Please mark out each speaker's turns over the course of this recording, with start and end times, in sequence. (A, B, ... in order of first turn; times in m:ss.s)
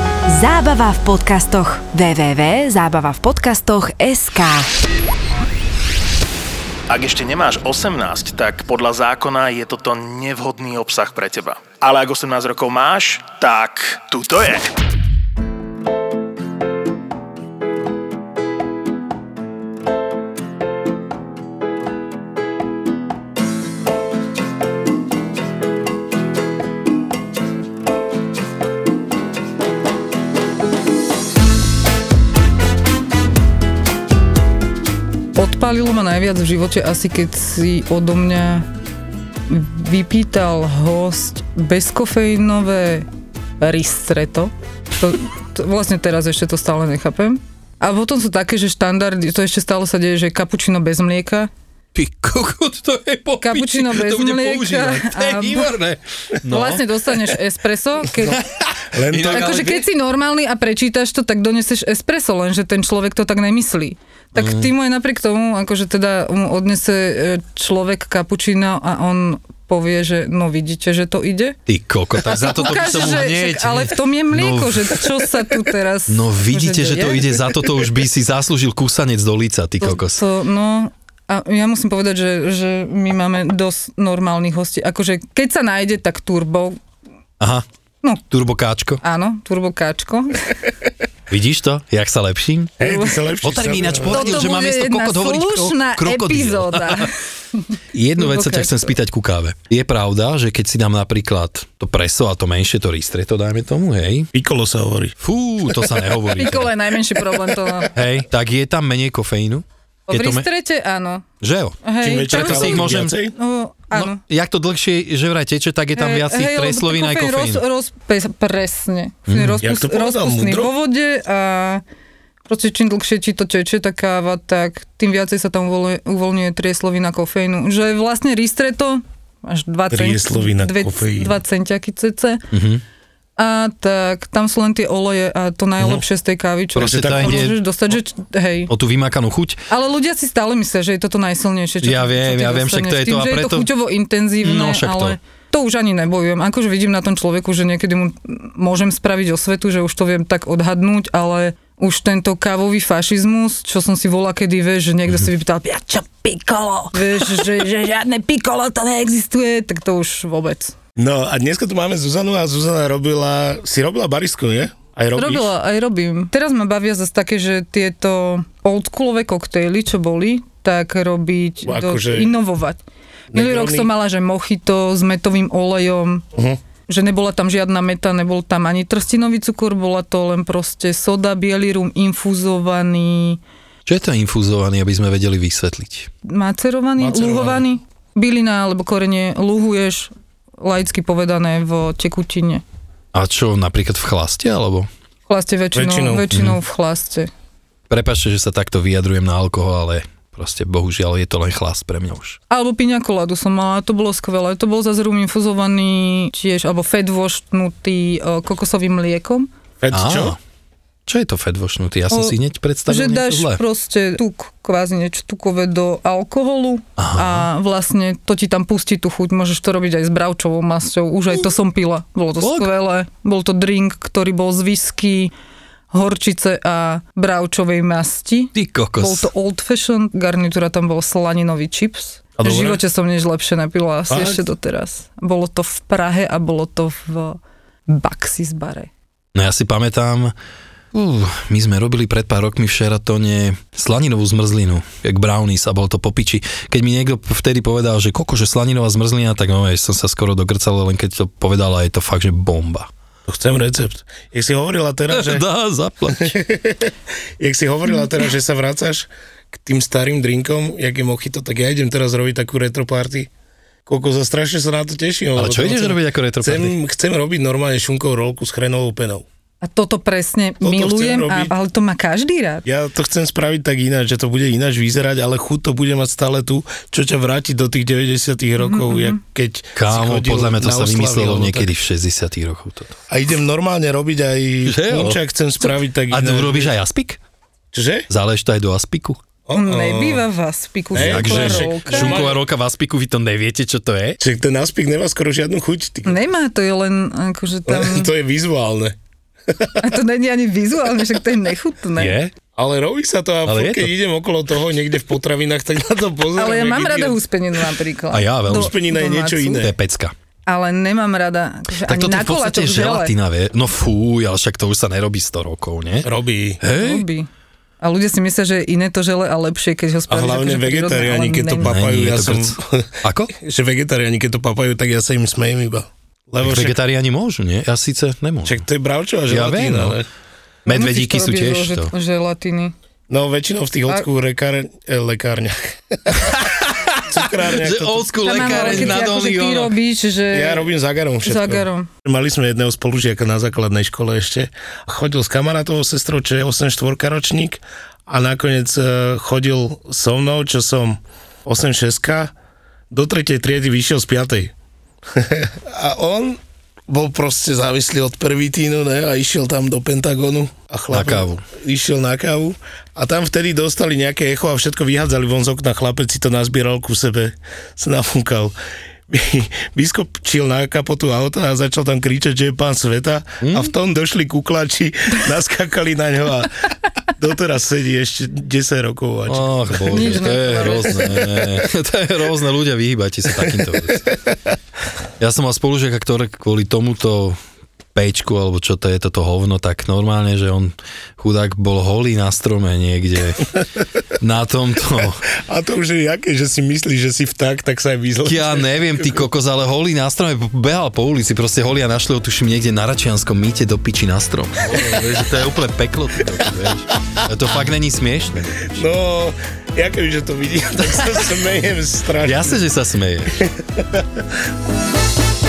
0:00.3-0:04.7 A
0:06.9-0:14.8 B
0:35.3-0:38.6 C
0:39.5-0:43.0 C
0:43.6-0:51.5 C
0:51.9-0:57.3 D
0:53.4-0:55.8 C
0:56.4-0:58.4 C
0:58.6-0:59.8 D
0:58.9-0:59.8 E
0:59.1-1:11.6 C
1:04.3-1:04.7 D
1:11.7-1:15.2 D
1:12.4-1:17.2 C
1:16.1-1:20.2 D
1:19.8-1:26.7 C
1:28.3-1:29.0 D
1:29.0-1:30.5 C
1:31.3-1:32.8 D
1:32.8-1:34.4 E
1:32.8-1:33.2 C
1:33.4-1:37.1 D
1:34.0-1:37.6 C
1:37.9-1:44.3 D
1:38.2-1:39.0 C
1:44.3-1:45.1 E
1:45.2-1:46.7 D
1:46.4-1:47.9 C
1:47.9-1:50.5 D
1:50.1-1:51.2 C
1:51.4-1:53.2 D
1:51.8-1:54.2 C
1:52.0-1:53.3 E
1:53.9-1:57.6 D
1:55.9-2:01.8 C
1:59.3-1:59.6 D
1:59.6-2:00.7 E
2:02.5-2:12.4 C
2:09.9-2:11.3 E
2:12.5-2:12.8 D
2:13.4-2:18.7 C
2:16.7-2:17.6 D
2:16.8-2:17.5 E
2:18.7-2:19.6 D
2:19.7-2:40.7 C
2:21.8-2:23.7 D
2:24.4-2:25.2 D
2:41.0-2:45.5 E
2:45.2-2:52.8 C
2:51.6-2:52.3 E
2:53.3-2:53.9 E
2:53.3-2:56.2 C
2:56.3-2:56.6 E
2:56.9-3:03.4 C
3:03.8-3:06.1 D
3:06.2-3:12.6 C
3:07.0-3:07.7 E
3:13.1-3:14.9 D
3:15.3-3:17.3 C
3:15.7-3:16.3 E
3:16.3-3:16.6 D
3:17.9-3:22.4 D
3:22.5-3:29.5 C
3:29.8-3:30.4 E
3:29.9-3:30.4 D
3:31.1-3:33.6 D
3:32.1-3:32.4 C
3:32.9-3:45.3 C
3:37.0-3:37.5 D
3:42.4-3:42.7 D
3:45.9-3:58.9 C
3:48.5-3:49.3 D
3:52.4-3:52.8 E
3:54.1-3:54.4 E
3:59.3-4:00.3 D
4:00.9-4:12.9 D
4:13.3-4:15.4 E
4:15.1-4:16.3 D
4:16.2-4:23.3 E
4:23.9-4:29.2 E
4:25.4-4:26.7 D
4:29.6-4:32.6 C
4:30.6-4:31.5 E
4:32.6-4:41.7 E
4:38.6-4:39.2 C
4:39.7-4:42.9 D
4:43.1-4:46.7 E
4:44.6-4:45.2 D
4:46.1-4:47.2 D
4:47.7-4:48.1 E
4:48.1-4:49.2 D
4:49.4-4:50.2 E
4:49.5-4:52.3 C
4:50.9-4:52.3 E
4:50.9-4:54.2 D
4:54.2-4:56.2 E
4:56.0-4:58.1 C
4:57.7-4:59.0 E
4:59.8-5:02.2 C
5:02.0-5:02.3 D
5:02.5-5:07.6 E
5:03.4-5:03.9 D
5:06.4-5:09.7 C
5:08.1-5:08.8 D
5:08.5-5:09.7 E
5:09.6-5:10.1 D
5:10.4-5:13.1 C
5:11.8-5:16.1 D
5:16.0-5:16.6 E
5:16.6-5:17.0 D
5:16.7-5:17.3 C
5:17.8-5:21.7 C
5:20.1-5:26.7 E
5:21.6-5:23.3 D
5:26.4-5:28.6 D
5:28.4-5:30.1 E
5:29.3-5:30.0 D
5:30.6-5:31.9 D
5:30.7-5:32.7 C
5:33.1-5:36.3 E
5:36.2-5:39.7 D
5:37.1-5:39.0 E
5:38.2-5:40.7 C
5:40.3-5:52.3 E
5:41.2-5:41.9 C
5:52.9-5:54.5 E
5:55.2-6:08.5 E
6:00.9-6:01.4 D
6:09.1-6:16.5 E
6:13.4-6:13.7 D
6:17.2-6:20.4 E
6:19.2-6:24.0 D
6:19.9-6:21.0 C
6:25.2-6:27.4 D
6:27.9-6:33.5 D
6:34.2-6:35.2 D
6:35.4-6:39.2 E
6:38.2-6:48.8 D
6:44.7-6:45.0 E
6:48.7-6:52.6 E
6:52.2-6:53.4 D
6:53.4-6:54.2 E